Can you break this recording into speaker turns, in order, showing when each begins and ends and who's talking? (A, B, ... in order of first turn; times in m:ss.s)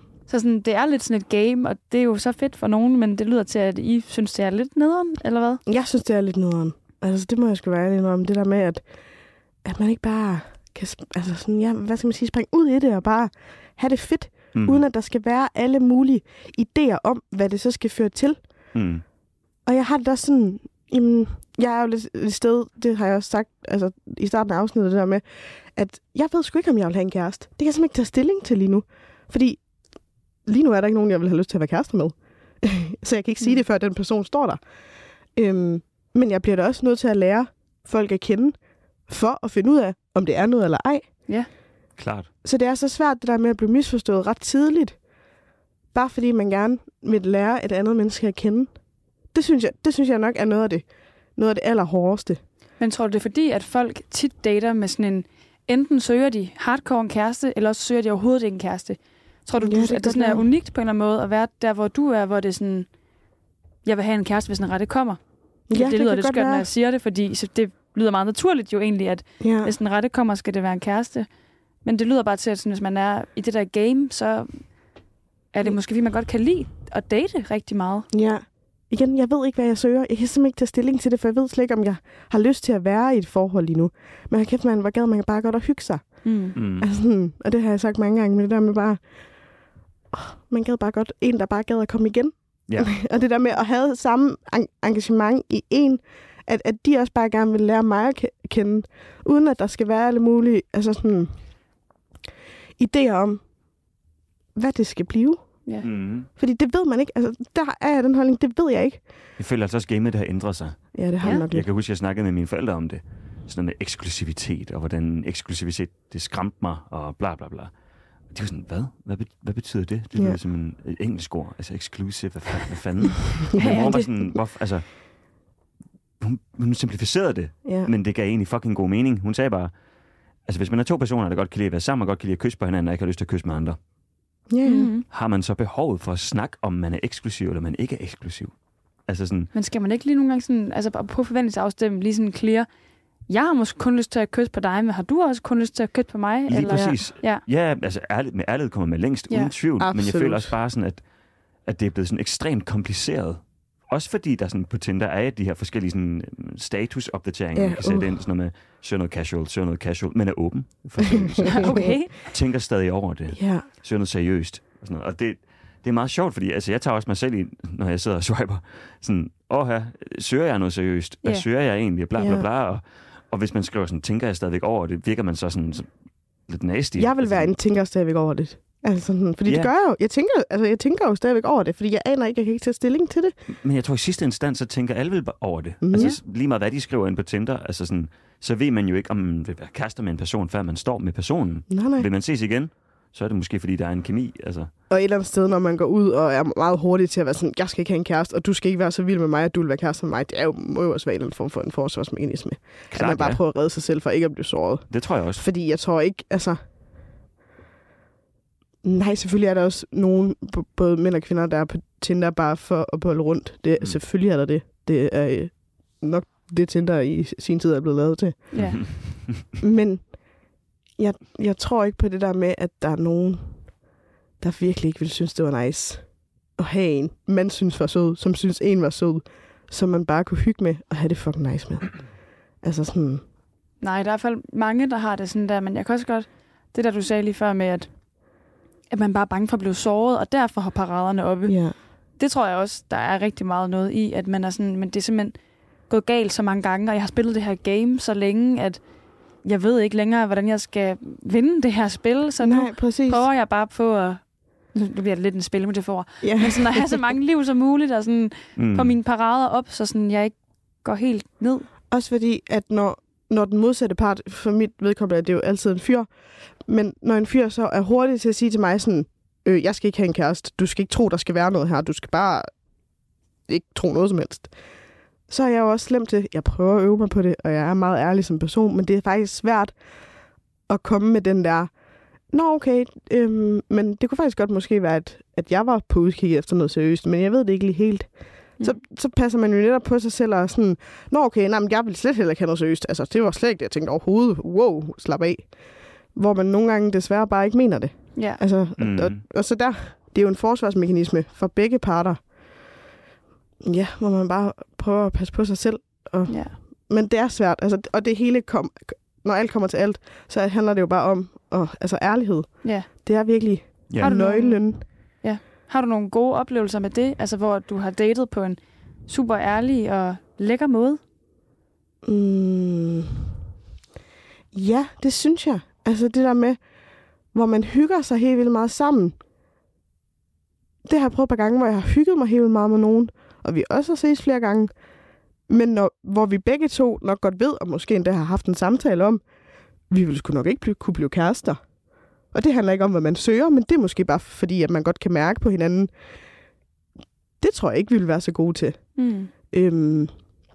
0:00.3-0:05.6 A
0:05.7-0:08.8 B
0:09.6-0:18.4 B
0:14.5-0:14.8 C
0:18.7-0:19.0 C
0:19.6-0:25.2 B
0:25.7-0:29.6 B
0:30.4-0:34.6 B
0:35.4-0:38.5 B
0:39.1-0:41.0 B
0:42.0-0:42.3 C
0:42.4-0:44.9 B
0:45.9-0:48.7 B
0:49.3-0:50.8 B
0:51.4-0:52.4 B
0:52.8-1:02.9 A
0:59.6-1:00.4 B
1:03.8-1:05.2 A
1:05.7-1:06.7 B
1:05.7-1:11.3 A
1:09.4-1:09.7 B
1:11.8-1:14.6 A
1:15.5-1:18.1 A
1:18.1-1:29.0 B
1:26.2-1:26.5 A
1:26.5-1:26.9 C
1:30.1-1:41.3 B
1:42.8-1:43.4 B
1:44.5-1:45.4 B
1:45.8-1:46.3 C
1:46.3-1:49.0 B
1:49.4-1:57.7 C
1:50.9-1:51.6 B
1:58.3-2:05.1 C
2:03.6-2:04.0 B
2:03.6-2:03.9 A
2:06.2-2:09.7 C
2:07.6-2:07.9 B
2:10.4-2:13.8 C
2:14.5-2:14.9 B
2:14.6-2:15.0 A
2:15.1-2:18.5 C
2:19.1-2:19.5 C
2:19.5-2:22.7 A
2:23.3-2:27.4 A
2:26.5-2:31.0 C
2:26.7-2:27.0 B
2:29.8-2:30.5 B
2:31.6-2:55.9 C
2:37.5-2:38.1 B
2:41.2-2:41.8 B
2:41.4-2:42.1 A
2:43.3-2:43.6 B
2:52.2-2:52.4 B
2:56.5-2:57.5 C
2:57.0-3:03.3 B
2:59.4-2:59.7 C
3:03.6-3:14.7 C
3:05.8-3:06.2 B
3:11.7-3:12.0 B
3:14.9-3:26.6 B
3:22.9-3:23.4 C
3:24.9-3:25.4 C
3:28.8-3:39.0 B
3:38.5-3:38.8 A
3:38.8-3:39.3 C
3:39.6-3:40.2 B
3:41.0-3:43.6 B
3:44.4-3:52.0 B
3:52.6-3:53.2 B
3:53.8-3:57.9 A
3:58.9-4:01.5 A
4:01.5-4:01.7 B
4:02.2-4:05.4 A
4:05.9-4:08.8 A
4:09.4-4:14.2 A
4:12.4-4:13.2 B
4:14.7-4:21.7 A
4:16.2-4:17.0 B
4:18.6-4:18.9 C
4:21.9-4:26.1 B
4:26.7-4:32.5 B
4:33.5-4:34.5 B
4:35.3-4:39.7 B
4:40.7-4:41.7 B
4:42.3-4:48.1 B
4:48.6-4:55.4 B
4:56.1-5:02.2 B
4:58.2-4:58.4 A
4:58.8-4:59.2 C
5:03.6-5:14.8 B
5:06.3-5:06.5 A
5:14.0-5:14.6 A
5:15.2-5:21.0 A
5:22.0-5:23.3 B
5:24.5-5:26.6 B
5:27.3-5:29.1 B
5:30.8-5:34.7 B
5:35.5-5:39.2 B
5:39.9-5:41.6 B
5:42.3-5:45.9 B
5:47.4-5:48.8 B
5:49.0-5:49.3 A
5:49.5-5:50.1 B